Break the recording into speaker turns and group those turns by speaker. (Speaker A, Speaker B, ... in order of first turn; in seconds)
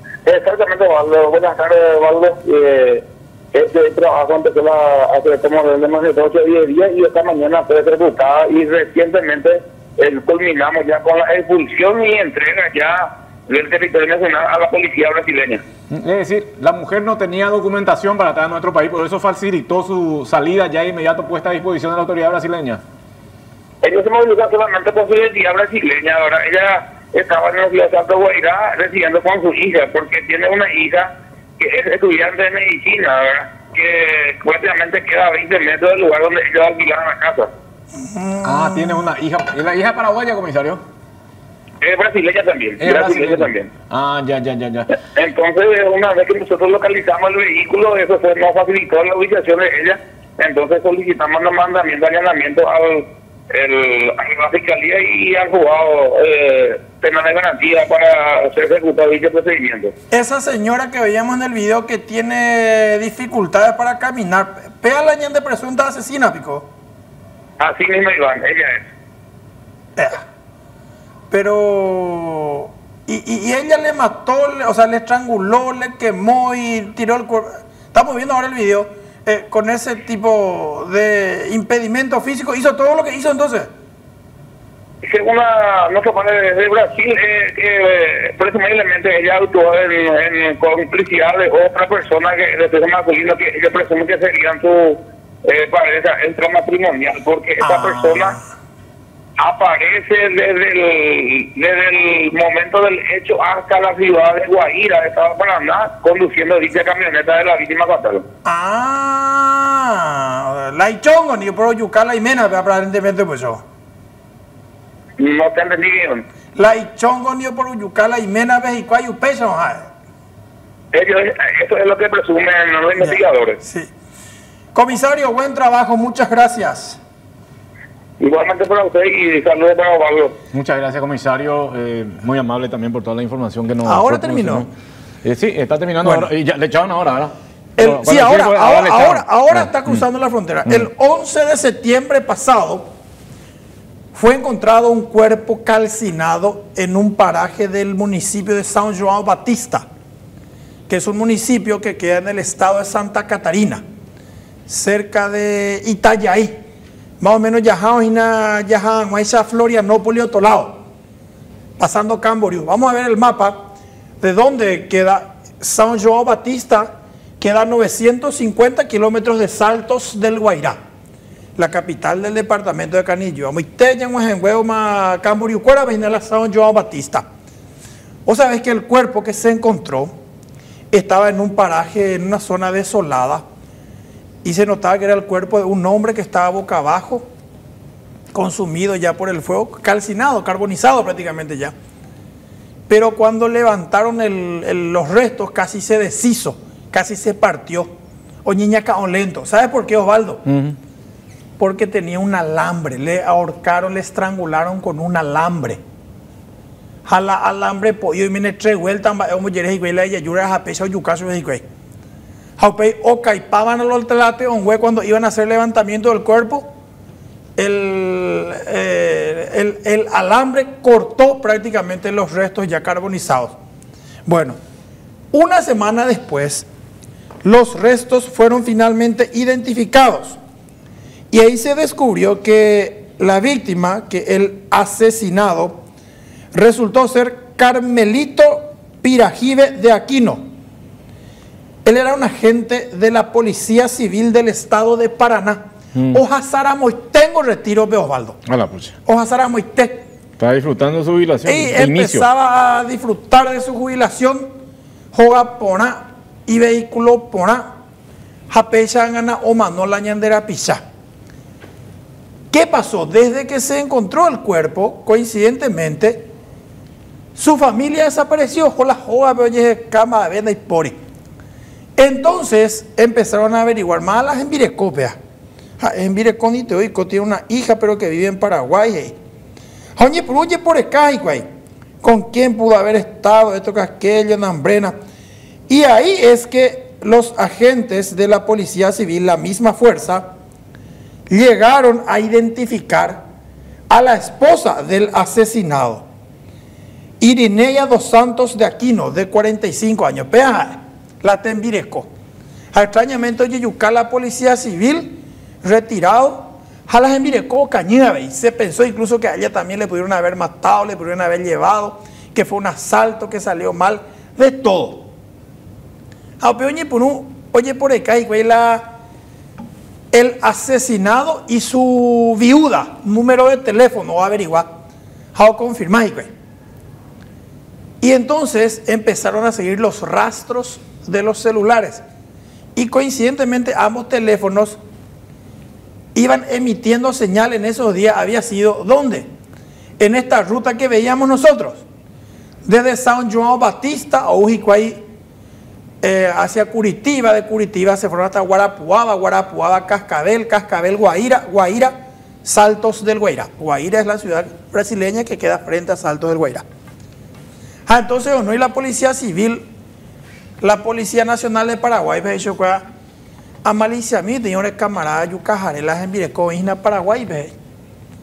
Speaker A: 0.3-15.6, 23.8-37.5, 41.8-43.7, 44.9-59.9, 67.6-68.9, 85.0-98.3, 99.4-108.2, 115.2-116.2, 120.9-123.6, 128.2-130.4
Speaker B: 15.9-22.8, 38.4-40.8, 42.8-44.9, 130.5-134.7, 135.2-140.0, 200.5-200.8, 245.9-246.2, 248.5-248.9, 250.4-252.3
Speaker C: 38.0-39.1, 60.1-66.7, 70.0-70.2, 71.3-83.7, 97.6-98.4, 108.5-113.6, 116.5-119.9, 123.0-123.9, 124.7-127.0, 133.8-134.7, 136.0-136.3, 137.8-142.9, 144.1-149.8, 150.9-153.8, 154.7-156.6, 157.2-160.8, 161.8-163.6, 164.2-170.8, 171.6-177.2, 178.3-180.1, 180.9-183.4, 184.4-187.2, 188.3-191.7, 192.9-197.9, 198.4-200.5, 201.6-205.8, 207.1-211.6, 212.6-216.7, 217.6-223.6, 224.3-224.6, 225.3-226.7, 227.4-230.4, 231.3-235.8, 236.5-240.4, 241.8-248.4, 249.1-250.1, 251.5-254.5, 255.1-257.7, 258.5-260.8, 262.5-266.3, 267.4-270.9, 272.0-275.2, 275.8-279.1, 280.0-281.4, 282.0-284.9, 285.7-290.3, 291.3-293.2, 293.9-296.0, 297.2-302.1, 302.7-315.1, 316.4-318.9, 320.1-324.7, 325.4-326.3, 328.0-332.0, 332.8-334.8, 336.1-339.3, 340.0-341.8, 342.7-345.0, 346.0-356.6, 357.9-359.7, 360.6-362.8, 363.6-367.5